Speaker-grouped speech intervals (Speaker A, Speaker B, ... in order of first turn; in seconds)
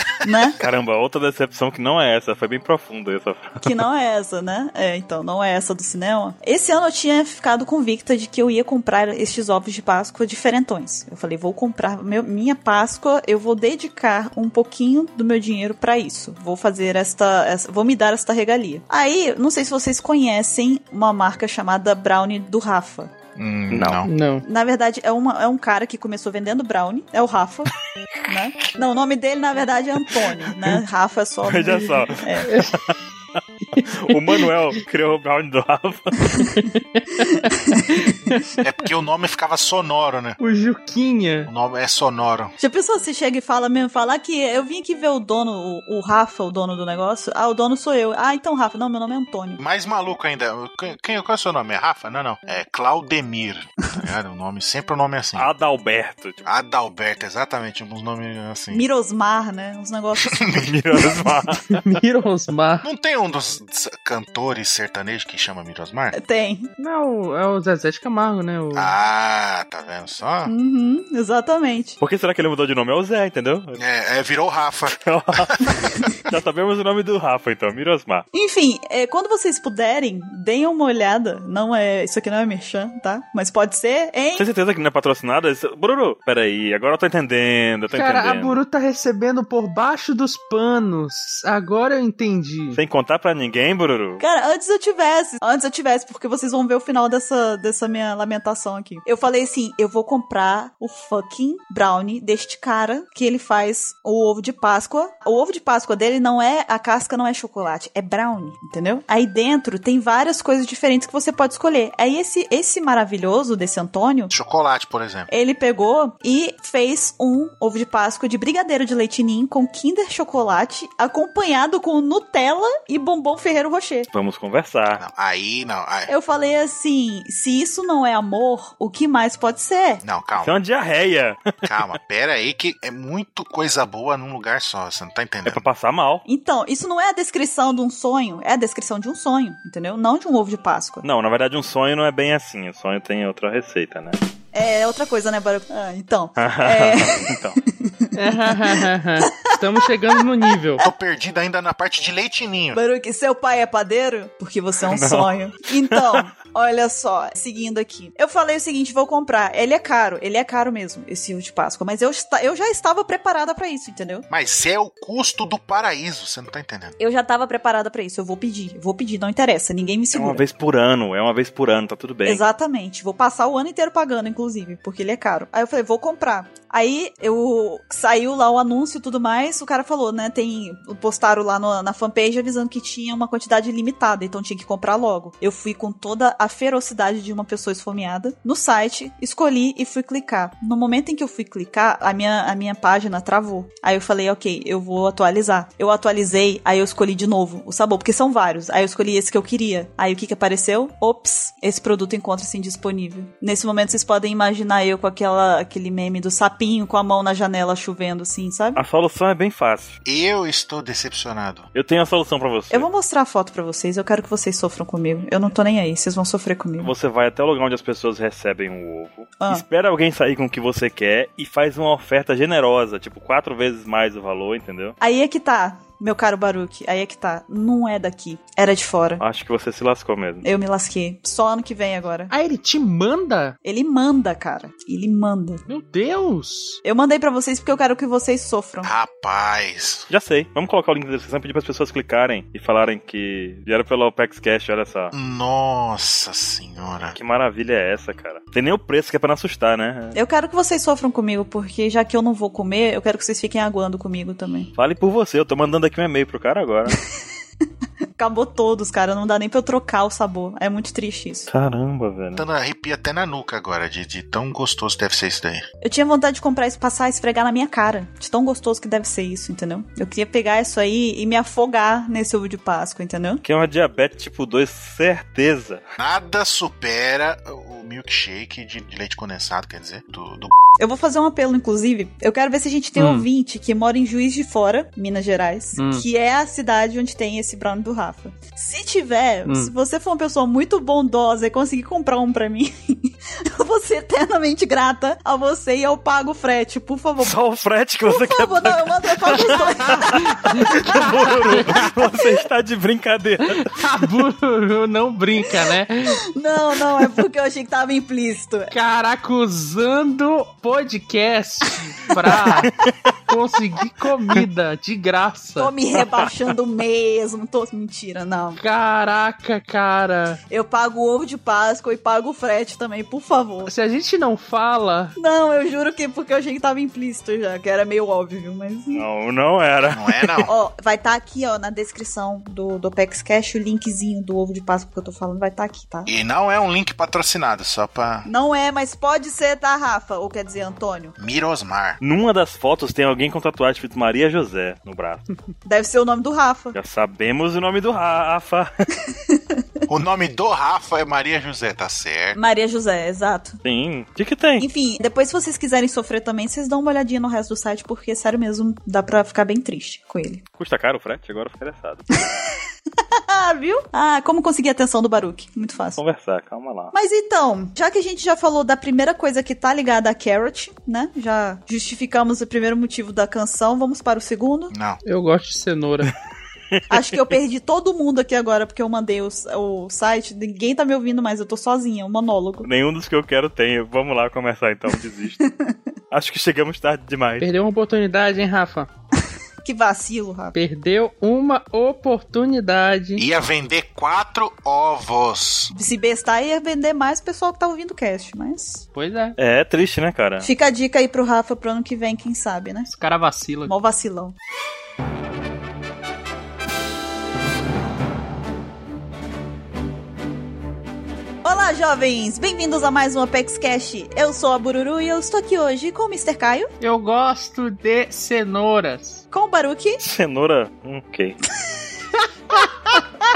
Speaker A: 0.2-0.6, 3.6-23.1, 24.4-27.7, 28.3-32.5, 42.6-49.6, 58.7-60.6, 66.1-66.7, 70.5-72.0, 78.3-84.5, 94.2-114.3, 115.3-124.1, 126.1-130.0, 136.3-141.1, 144.5-148.8, 152.7-164.3, 167.0-170.4, 172.2-208.8, 212.7-216.9, 225.0-229.2, 230.4-232.3, 233.6-235.6, 236.8-238.9, 250.2-254.7, 258.2-261.5, 265.8-273.4, 280.8-297.4, 298.1-301.3, 306.3-308.7, 315.6-318.6, 320.5-323.7, 325.2-329.1, 330.5-336.1, 338.3-341.1, 345.6-346.8, 352.4-353.6, 354.6-360.4, 363.1-366.0, 366.9-374.7, 376.9-382.7, 385.5-385.8, 389.6-390.6, 395.7-398.9, 400.4-402.9, 403.7-404.4, 411.4-416.7, 419.3-420.0
Speaker B: 0.6-3.7, 23.7-24.0, 31.5-32.3, 34.0-36.3, 55.4-56.4, 60.6-61.8, 72.0-73.8, 74.9-78.3, 84.3-88.6, 92.7-94.2, 124.1-125.0, 130.4-131.7, 135.4-136.2, 141.0-144.2, 146.4-147.6, 154.9-155.3, 155.9-156.2, 170.1-172.4, 208.8-210.0, 211.8-212.9, 216.8-225.0, 229.2-230.4, 240.1-245.1, 247.2-250.2, 254.8-257.0, 261.5-262.4, 273.4-275.8, 297.2-303.7, 328.9-330.5, 342.0-345.3, 346.7-348.7, 353.6-354.7, 360.6-362.1, 366.0-366.9, 382.6-385.4, 386.1-387.5, 399.4-400.5, 420.0-421.4
Speaker C: 23.4-24.1, 38.6-40.4, 41.5-42.5, 49.6-55.5, 56.4-58.8, 60.2-60.7, 62.8-66.2, 68.7-70.5, 73.8-76.0, 114.3-115.3, 124.9-126.1, 130.0-130.6, 131.6-135.6, 150.8-152.8, 164.3-167.0, 210.1-211.7, 238.8-240.1, 245.1-247.2, 262.4-265.7, 276.0-280.5, 329.9-330.5, 336.1-338.3, 341.2-342.0, 349.9-352.4, 374.7-375.0, 393.2-395.7
Speaker D: 24.0-24.4, 32.4-32.8, 33.7-34.5, 36.4-38.6, 40.4-41.5, 61.7-62.9, 66.8-68.9, 87.9-92.8, 148.2-150.8, 232.3-233.6, 235.7-236.8, 283.0-283.3, 285.8-286.1, 289.5-289.7, 299.9-301.9, 303.6-306.2, 308.7-312.7, 313.3-315.7, 318.6-320.4, 323.7-325.1, 375.1-376.1, 387.4-388.9, 390.5-393.2, 398.9-399.4, 402.9-403.7, 416.8-419.2